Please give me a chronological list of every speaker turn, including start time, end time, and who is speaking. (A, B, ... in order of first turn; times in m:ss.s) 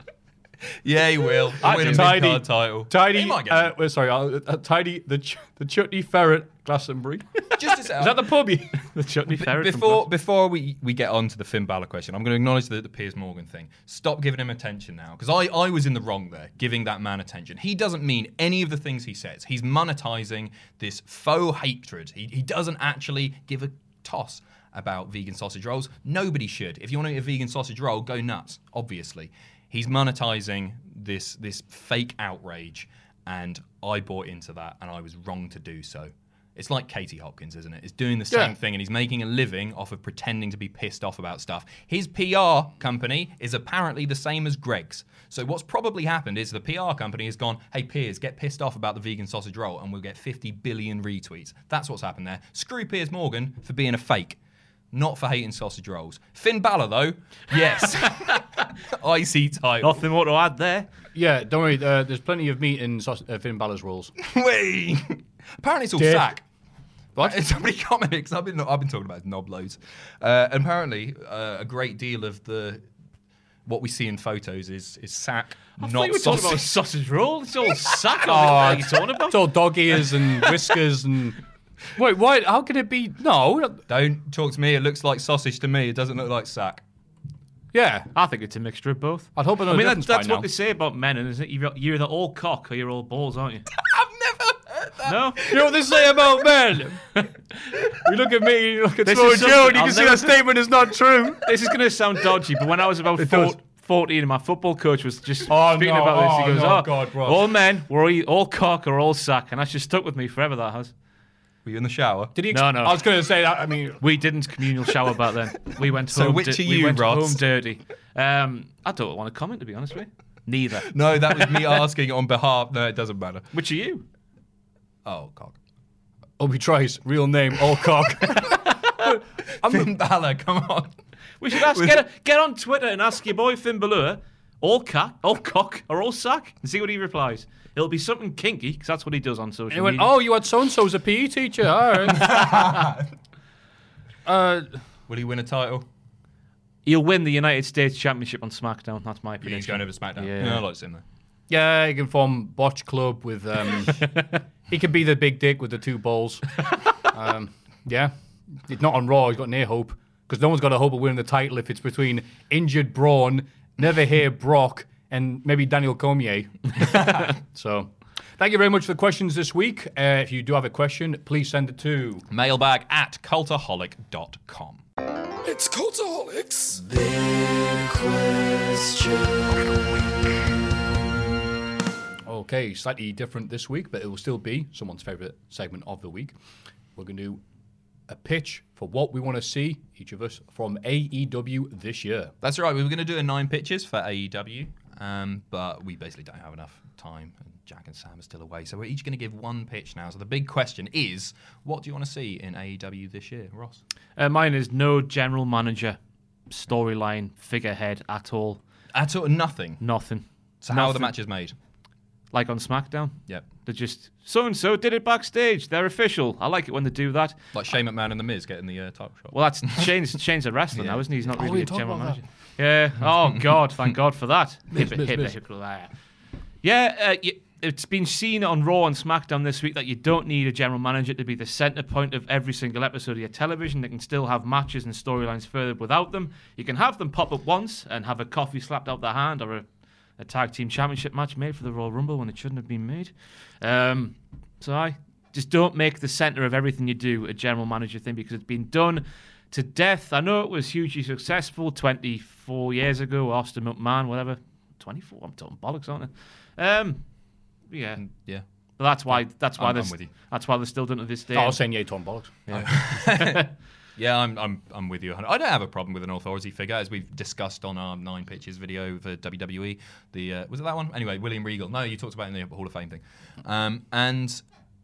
0:00.8-0:03.7 A
0:01.6-0:08.8 B
0:01.6-0:02.2 C
0:07.6-0:08.3 A
0:08.8-0:10.1 C
0:09.3-0:54.4 A
0:54.9-1:00.0 A
0:59.8-1:00.9 C
1:01.1-1:04.2 B
1:04.2-1:06.4 A
1:06.0-1:06.4 B
1:07.2-1:12.8 A
1:13.7-1:16.7 A
1:15.8-1:19.4 C
1:18.2-1:21.4 B
1:22.0-1:23.8 B
1:23.9-1:26.8 A
1:27.7-1:28.1 B
1:28.2-1:33.6 C
1:29.4-1:30.5 B
1:33.8-1:35.8 A
1:35.1-1:35.4 C
1:35.5-1:37.2 B
1:37.9-1:41.5 B
1:39.0-1:40.3 C
1:41.4-1:50.9 C
1:43.2-1:43.6 B
1:45.5-1:47.4 B
1:51.6-1:52.3 A
1:52.4-1:54.0 B
1:52.5-1:53.0 C
1:54.0-2:01.7 C
1:56.1-1:57.4 A
2:00.9-2:03.5 A
2:03.5-2:04.0 C
2:05.0-2:05.5 A
2:06.4-2:09.9 B
2:09.6-2:11.0 A
2:11.4-2:20.1 C
2:11.6-2:12.0 A
2:19.7-2:22.8 B
2:22.0-2:23.1 A
2:24.2-2:24.8 B
2:25.1-2:25.9 A
2:26.9-2:30.6 C
2:29.4-2:31.0 A
2:31.5-2:34.1 B
2:34.7-2:38.1 B
2:38.6-2:52.2 B
2:46.8-2:47.3 A
2:52.3-2:54.8 A
2:55.4-2:59.2 B
3:02.2-3:06.4 B
3:07.0-3:07.4 B
3:08.1-3:12.3 B
3:12.4-3:23.8 A
3:24.2-3:26.0 C
3:26.5-3:28.6 C
3:28.9-3:29.8 A
3:29.8-3:31.1 C
3:30.6-3:31.5 A
3:32.3-3:37.4 C
3:37.5-3:39.9 A
3:39.3-3:45.9 C
3:40.8-3:41.0 A
3:41.4-3:42.2 B
3:44.7-3:45.4 B
3:46.6-3:59.7 C
4:00.2-4:18.3 C
4:18.0-4:18.4 A
4:18.8-4:21.8 C
4:19.1-4:20.1 A
4:21.3-4:22.5 B
4:22.5-4:23.5 C
4:22.5-4:34.4 A